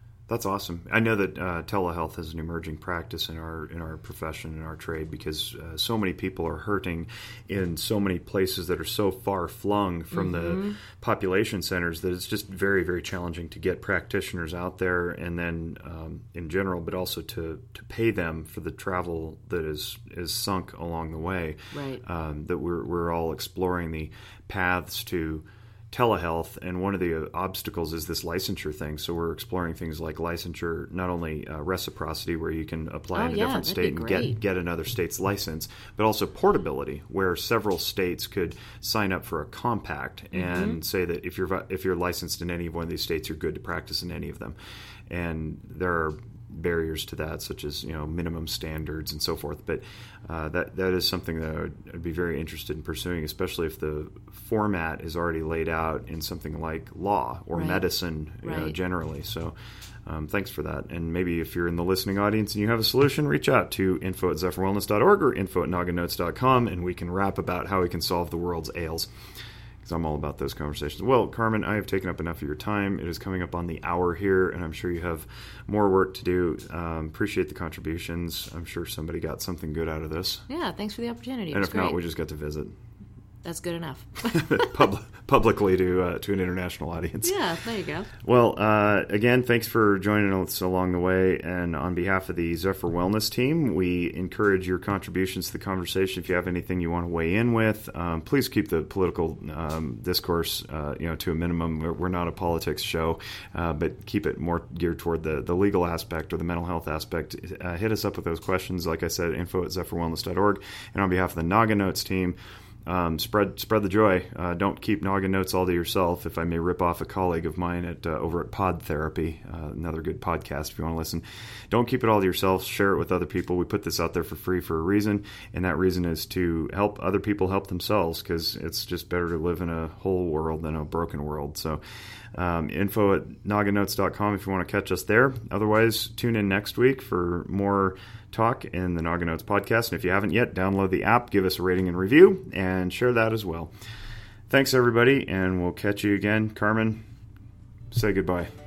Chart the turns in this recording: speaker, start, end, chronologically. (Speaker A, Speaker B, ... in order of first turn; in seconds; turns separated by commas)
Speaker A: 0.3-44.5, Speaker B: 10.1-10.8, Speaker B: 21.7-22.0, Speaker B: 33.1-34.4, Speaker B: 40.3-40.8, Speaker A: 45.1-59.5, Speaker B: 57.5-57.8, Speaker B: 58.4-58.7, Speaker A: 60.0-69.1, Speaker A: 69.8-80.4, Speaker B: 80.5-82.0, Speaker A: 81.5-82.8, Speaker B: 83.4-84.8, Speaker A: 84.3-87.4, Speaker B: 87.2-88.1, Speaker A: 88.2-131.8, Speaker A: 132.3-143.7, Speaker A: 144.5-147.0, Speaker A: 147.9-148.5